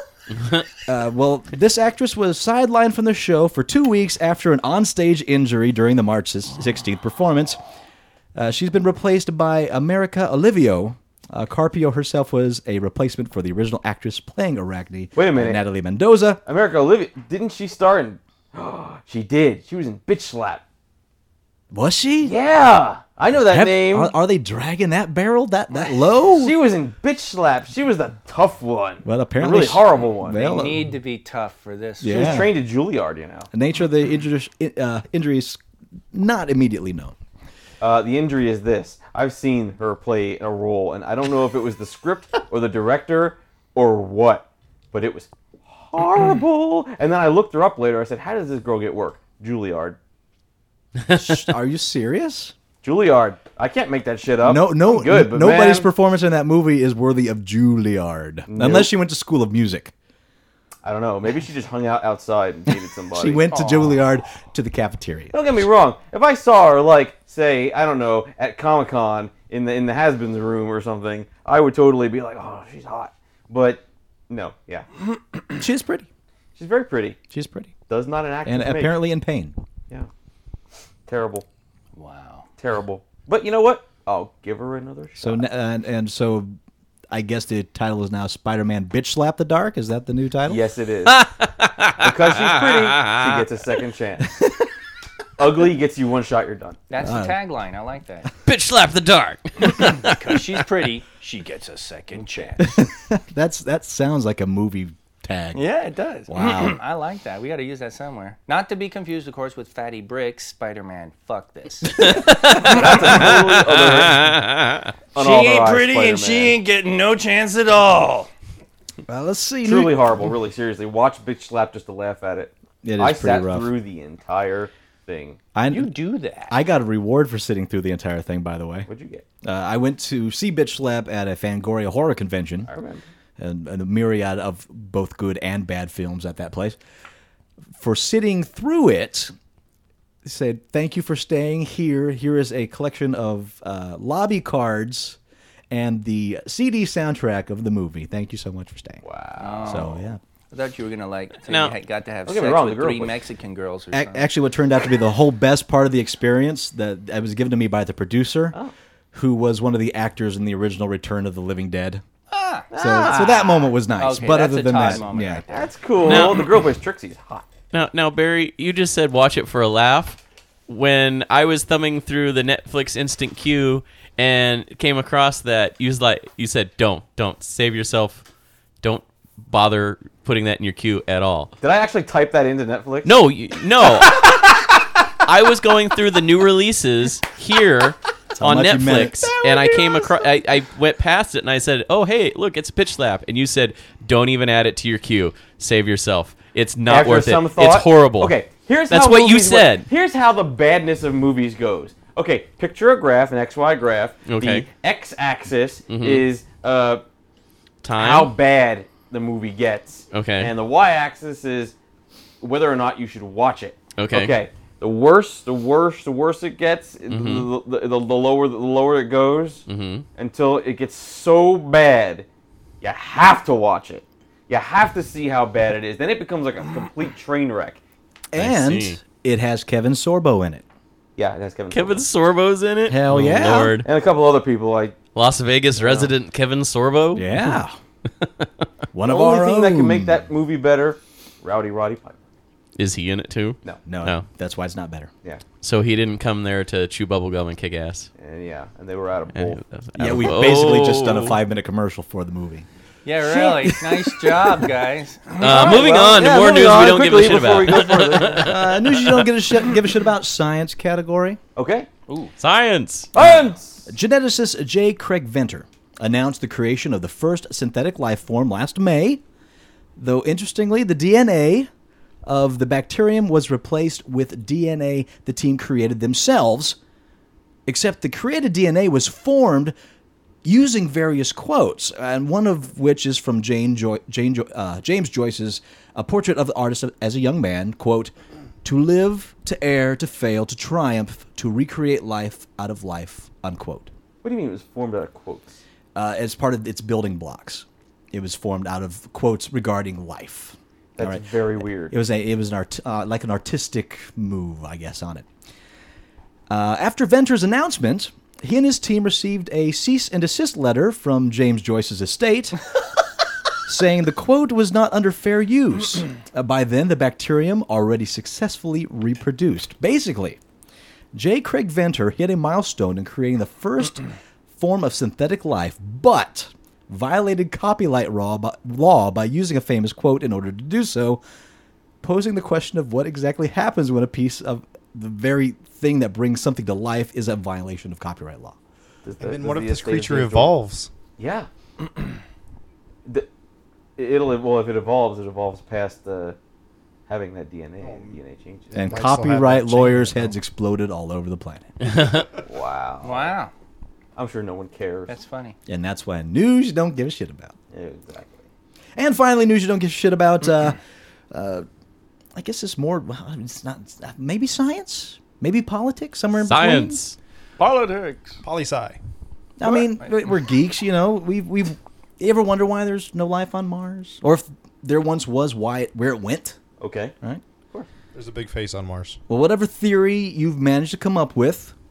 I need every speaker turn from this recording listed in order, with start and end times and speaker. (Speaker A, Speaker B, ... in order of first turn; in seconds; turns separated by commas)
Speaker A: 0.8-7.6, Speaker A: 8.3-16.4, Speaker B: 15.1-15.6, Speaker B: 16.4-20.6, Speaker A: 21.7-22.3, Speaker B: 22.2-24.1, Speaker A: 23.3-26.5, Speaker B: 26.3-30.6, Speaker A: 29.0-30.8, Speaker C: 30.4-32.4, Speaker A: 32.0-32.5, Speaker B: 32.1-33.5, Speaker A: 33.5-35.6, Speaker A: 36.1-37.1, Speaker B: 37.8-50.0, Speaker A: 51.1-52.5, Speaker B: 52.8-55.9, Speaker A: 54.4-59.9, Speaker B: 58.5-58.9, Speaker B: 60.8-64.0, Speaker A: 63.1-65.3, Speaker B: 65.3-74.9, Speaker A: 75.6-76.1, Speaker B: 76.5-77.2, Speaker A: 77.3-77.7, Speaker B: 77.9-79.0, Speaker A: 78.4-79.5, Speaker B: 81.1-81.5, Speaker C: 82.0-82.5, Speaker B: 82.6-85.4, Speaker A: 85.2-86.5, Speaker A: 87.1-90.6, Speaker B: 90.5-91.2, Speaker D: 91.0-93.4, Speaker B: 92.0-94.3, Speaker A: 94.4-94.6, Speaker B: 95.4-96.8, Speaker C: 96.9-98.3, Speaker A: 97.0-97.4, Speaker D: 98.5-100.4, Speaker C: 99.8-102.8, Speaker A: 102.6-105.6, Speaker C: 105.5-112.1, Speaker A: 106.3-106.8, Speaker D: 112.0-114.9, Speaker B: 112.3-114.4, Speaker B: 115.1-116.6, Speaker C: 115.1-118.3, Speaker A: 119.1-120.1, Speaker B: 119.6-125.4, Speaker A: 122.8-123.7, Speaker A: 125.5-125.9, Speaker C: 125.7-126.5, Speaker A: 126.5-128.9, Speaker B: 128.9-129.2, Speaker A: 129.4-132.7, Speaker B: 132.7-133.0, Speaker A: 133.4-136.8, Speaker A: 137.8-139.3, Speaker A: 140.2-145.2, Speaker A: 145.7-149.0, Speaker B: 149.0-150.0, Speaker C: 149.4-149.9, Speaker A: 149.6-150.2, Speaker C: 150.5-154.3, Speaker D: 151.5-151.7, Speaker B: 152.2-153.1, Speaker A: 153.9-158.6, Speaker A: 159.1-162.0, Speaker C: 162.3-162.7, Speaker B: 162.7-163.7, Speaker A: 162.7-165.4, Speaker C: 163.9-165.7, Speaker B: 165.5-167.5, Speaker D: 166.0-166.6, Speaker D: 167.7-178.2, Speaker D: 178.8-181.5, Speaker B: 181.6-183.1, Speaker D: 183.0-184.4, Speaker D: 185.2-198.3, Speaker A: 188.3-189.3, Speaker B: 196.9-207.0, Speaker D: 198.9-199.9, Speaker D: 204.3-204.7, Speaker D: 205.9-206.2, Speaker D: 207.8-208.3, Speaker B: 207.9-211.7, Speaker D: 210.1-210.5, Speaker B: 212.4-219.6, Speaker D: 214.0-214.3, Speaker D: 217.1-217.5, Speaker D: 219.7-220.1, Speaker B: 220.2-222.3, Speaker B: 222.8-227.8, Speaker A: 228.3-230.6, Speaker D: 228.3-229.0, Speaker B: 231.2-232.0, Speaker D: 231.7-233.9, Speaker A: 232.9-233.8, Speaker B: 233.8-235.0, Speaker D: 235.1-237.5, Speaker B: 235.8-236.1, Speaker A: 237.1-237.8, Speaker D: 238.2-238.6, Speaker A: 238.9-240.2, Speaker B: 239.1-242.2, Speaker D: 242.8-244.2, Speaker A: 243.8-245.1, Speaker D: 245.6-248.1, Speaker B: 248.2-249.6, Speaker D: 249.3-251.4, Speaker A: 249.9-252.7, Speaker C: 253.0-255.8, Speaker B: 255.4-258.6, Speaker D: 255.4-259.2, Speaker A: 258.4-261.4, Speaker B: 261.6-261.9, Speaker C: 262.1-262.3, Speaker D: 262.4-263.1, Speaker B: 263.1-263.9, Speaker A: 263.2-269.2, Speaker A: 270.0-271.7, Speaker A: 272.2-276.8, Speaker A: 277.6-279.7, Speaker A: 280.4-288.1, Speaker A: 288.6-293.9, Speaker B: 294.2-295.6, Speaker A: 295.9-305.2, Speaker B: 301.0-301.9, Speaker A: 306.5-312.6, Speaker A: 313.6-320.4, Speaker A: 321.1-324.0, Speaker A: 324.6-331.2, Speaker A: 332.0-338.6, Speaker B: 339.0-340.5, Speaker E: 339.2-340.9, Speaker B: 341.2-342.2, Speaker B: 344.0-346.4, Speaker B: 347.1-349.0, Speaker E: 347.8-348.2, Speaker E: 348.7-350.3, Speaker A: 348.7-351.7, Speaker D: 351.8-352.2, Speaker B: 352.4-353.3, Speaker C: 353.0-353.5, Speaker B: 354.1-355.1, Speaker C: 355.1-355.6, Speaker A: 355.7-357.5, Speaker B: 357.7-358.4, Speaker A: 358.9-360.8, Speaker A: 361.3-361.6, Speaker A: 362.4-367.0, Speaker D: 366.4-367.2, Speaker C: 367.6-368.4, Speaker E: 368.4-369.0, Speaker A: 369.6-376.6, Speaker C: 369.7-370.1, Speaker B: 376.8-377.1, Speaker E: 378.1-379.2, Speaker A: 379.3-381.7